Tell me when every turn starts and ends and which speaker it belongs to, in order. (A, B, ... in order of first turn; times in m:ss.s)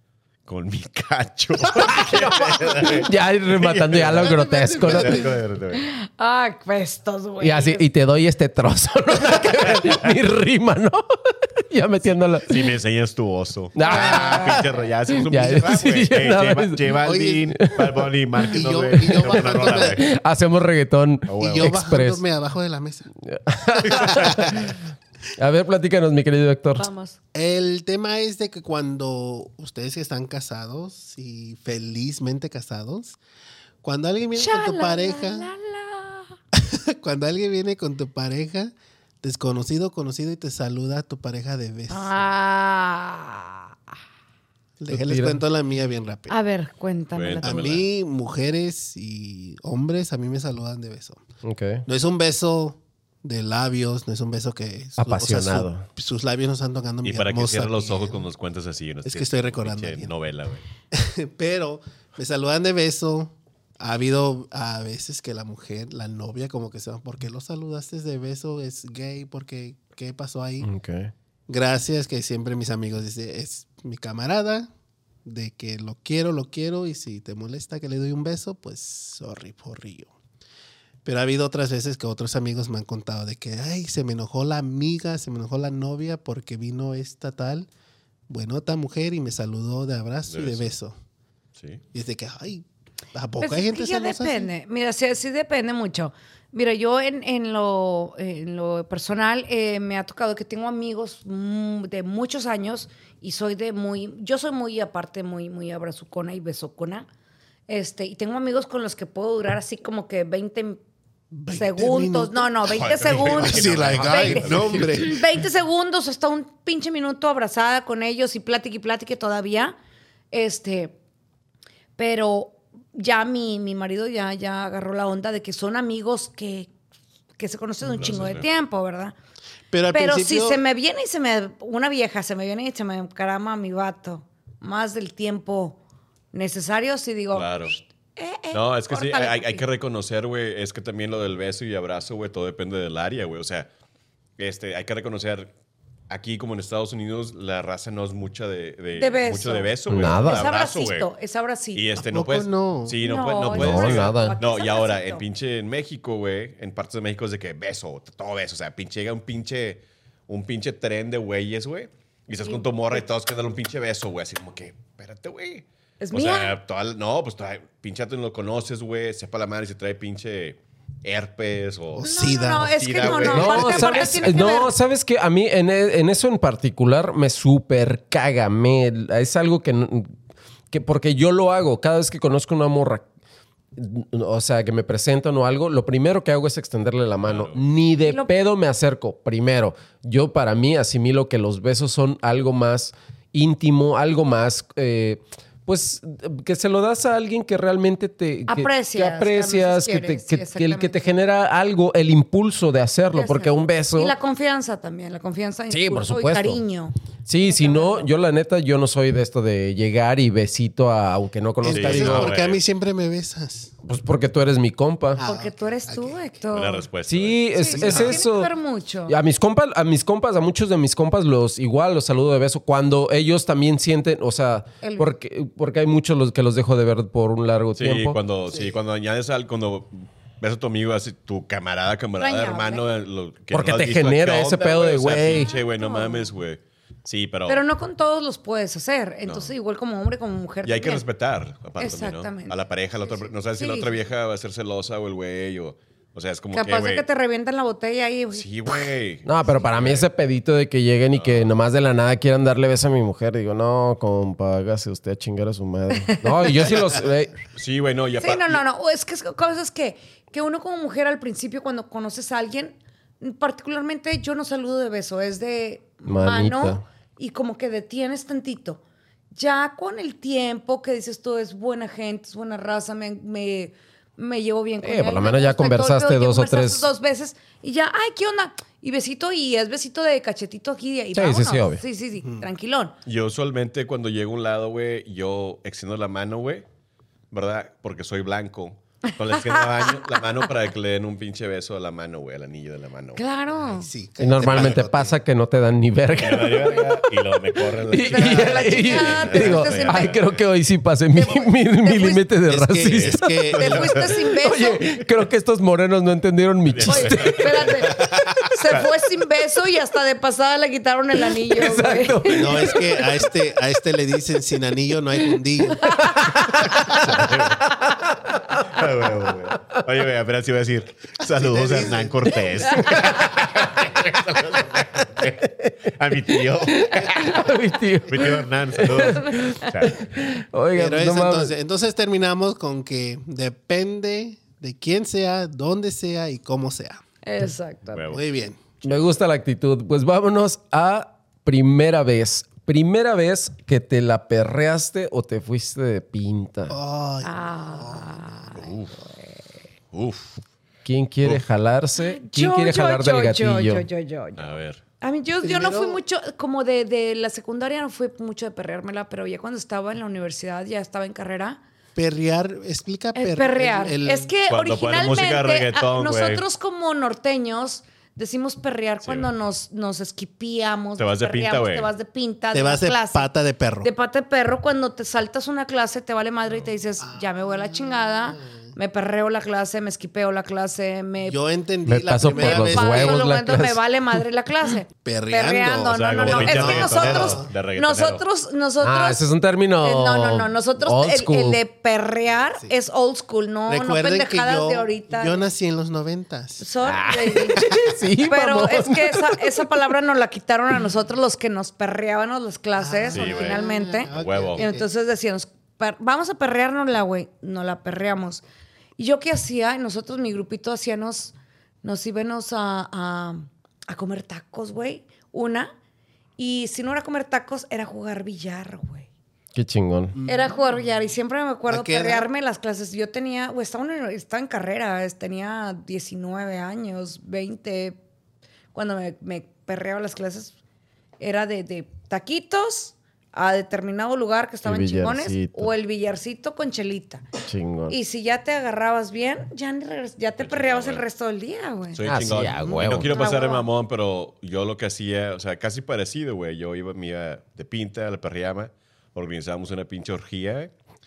0:00.5-0:05.8 A
0:01.7-0:05.3 B
0:04.0-0:05.4 C
0:05.7-0:07.8 D
0:07.4-0:12.7 B
0:09.7-0:09.9 A
0:12.5-0:20.1 A
0:13.8-0:16.9 B
0:13.9-0:14.6 D
0:17.0-0:17.5 C
0:17.6-0:17.9 B
0:18.5-0:20.0 C
0:19.0-0:22.2 B
0:21.3-0:21.7 A
0:21.4-0:23.1 C
0:23.2-0:24.8 B
0:23.8-0:24.7 C
0:23.9-0:24.3 A
0:25.4-0:26.9 B
0:26.8-0:27.2 D
0:27.3-0:33.2 C
0:33.8-0:35.5 C
0:34.4-0:36.3 D
0:36.5-0:42.2 C
0:41.9-0:43.7 D
0:44.8-0:46.4 C
0:44.9-0:45.4 B
0:46.3-0:47.7 D
0:47.1-0:47.9 A
0:47.4-0:51.2 C
0:51.4-0:51.8 B
0:51.9-0:58.3 C
0:55.0-0:55.8 B
0:57.0-1:00.6 A
0:59.1-1:00.1 C
1:00.9-1:10.7 C
1:10.6-1:11.1 B
1:11.5-1:14.7 C
1:15.2-1:20.1 C
1:21.0-1:27.7 C
1:28.3-1:31.0 C
1:30.3-1:30.7 A
1:31.6-1:31.8 A
1:31.9-1:34.5 C
1:33.4-1:47.1 D
1:47.7-1:50.8 D
1:51.3-1:55.2 C
1:51.5-1:59.8 D
1:52.7-1:55.1 A
1:53.9-1:55.0 B
2:00.3-2:01.0 D
2:02.0-2:06.7 D
2:07.4-2:09.2 D
2:08.0-2:08.5 A
2:09.7-2:10.6 C
2:09.9-2:15.8 D
2:16.3-2:19.6 D
2:17.3-2:17.8 A
2:18.5-2:23.7 A
2:24.4-2:25.5 A
2:26.1-2:31.1 A
2:29.0-2:31.9 D
2:29.9-2:30.5 B
2:31.7-2:54.3 A
2:32.0-2:33.0 C
2:33.0-2:35.2 D
2:33.5-2:34.4 B
2:42.4-2:43.0 D
2:46.0-2:46.6 D
2:51.9-2:54.2 C
2:52.0-2:54.8 D
2:53.3-3:00.1 B
3:00.7-3:03.0 B
3:03.8-3:24.1 B
3:07.2-3:07.6 A
3:08.0-3:08.3 D
3:18.5-3:21.2 D
3:23.1-3:28.1 D
3:25.7-3:26.6 B
3:27.3-3:32.4 B
3:31.6-3:33.7 C
3:31.7-3:32.6 A
3:33.8-3:35.2 B
3:35.2-3:36.2 C
3:35.2-3:36.9 D
3:36.5-3:38.2 A
3:37.1-3:38.5 B
3:37.5-3:39.2 D
3:39.1-3:48.2 B
3:44.8-3:45.1 D
3:47.8-3:57.6 A
3:48.5-3:48.8 C
3:52.2-3:52.8 D
3:53.5-3:55.5 B
3:55.2-3:56.3 D
3:57.5-4:01.0 D
3:59.3-3:59.5 A
4:00.6-4:07.0 A
4:01.8-4:02.6 D
4:03.1-4:03.9 D
4:06.5-4:08.9 D
4:08.3-4:10.1 A
4:09.2-4:17.3 B
4:11.1-4:11.5 A
4:16.0-4:16.7 D
4:17.6-4:18.6 A
4:18.2-4:28.8 D
4:26.0-4:26.8 B
4:29.3-4:43.0 D
4:34.8-4:36.9 B
4:41.1-4:41.8 B
4:42.2-4:42.5 C
4:43.0-4:46.6 A
4:47.3-4:53.2 A
4:49.4-4:50.1 D
4:53.2-4:53.9 D
4:53.5-4:55.2 C
4:54.2-4:56.9 B
4:54.5-4:54.8 A
4:56.2-5:00.4 A
4:56.4-4:56.9 D
4:57.7-5:03.6 B
4:57.9-5:00.2 D
5:01.1-5:02.3 D
5:02.5-5:04.1 C
5:02.8-5:03.9 A
5:03.5-5:04.9 D
5:04.2-5:07.7 B
5:06.7-5:08.9 A
5:06.8-5:12.7 D
5:11.2-5:13.3 B
5:12.3-5:16.2 C
5:15.3-5:18.9 B
5:16.9-5:17.7 A
5:18.6-5:27.4 A
5:21.3-5:22.9 C
5:22.7-5:23.7 B
5:25.4-5:25.7 B
5:26.3-5:31.6 B
5:28.1-5:30.1 A
5:29.0-5:29.7 D
5:30.7-5:37.0 C
5:37.2-5:38.1 D
5:37.9-5:38.2 A
5:38.1-5:38.6 C
5:38.8-5:46.8 B
5:46.7-5:48.6 C
5:47.2-5:49.4 D
5:48.6-5:48.9 A
5:49.9-5:50.4 A
5:50.8-5:53.9 B
5:52.0-6:01.6 D
5:54.4-5:54.8 A
5:55.4-5:56.0 C
6:02.0-6:04.3 C
6:03.2-6:13.3 D
6:04.5-6:06.4 A
6:09.0-6:09.3 A
6:11.0-6:11.9 A
6:12.5-6:13.9 C
6:13.8-6:21.4 D
6:17.0-6:18.6 C
6:21.2-6:23.2 C
6:21.9-6:23.8 B
6:22.2-6:29.2 D
6:25.0-6:27.5 C
6:25.9-6:28.2 A
6:28.8-6:31.6 B
6:29.8-6:35.4 D
6:33.7-6:36.7 C
6:36.6-6:37.7 D
6:36.8-6:39.7 B
6:38.3-6:48.4 D
6:42.8-6:44.9 C
6:43.1-6:44.6 A
6:49.0-6:55.7 D
6:56.4-6:59.1 D
6:59.5-7:00.2 B
7:00.1-7:00.6 C
7:00.3-7:08.0 D
7:01.7-7:02.3 C
7:08.7-7:10.6 D
7:11.2-7:17.3 D
7:14.6-7:15.7 B
7:17.4-7:18.0 B
7:17.9-7:22.0 D
7:20.4-7:21.0 A
7:21.9-7:30.7 A
7:22.0-7:23.2 B
7:22.6-7:23.7 D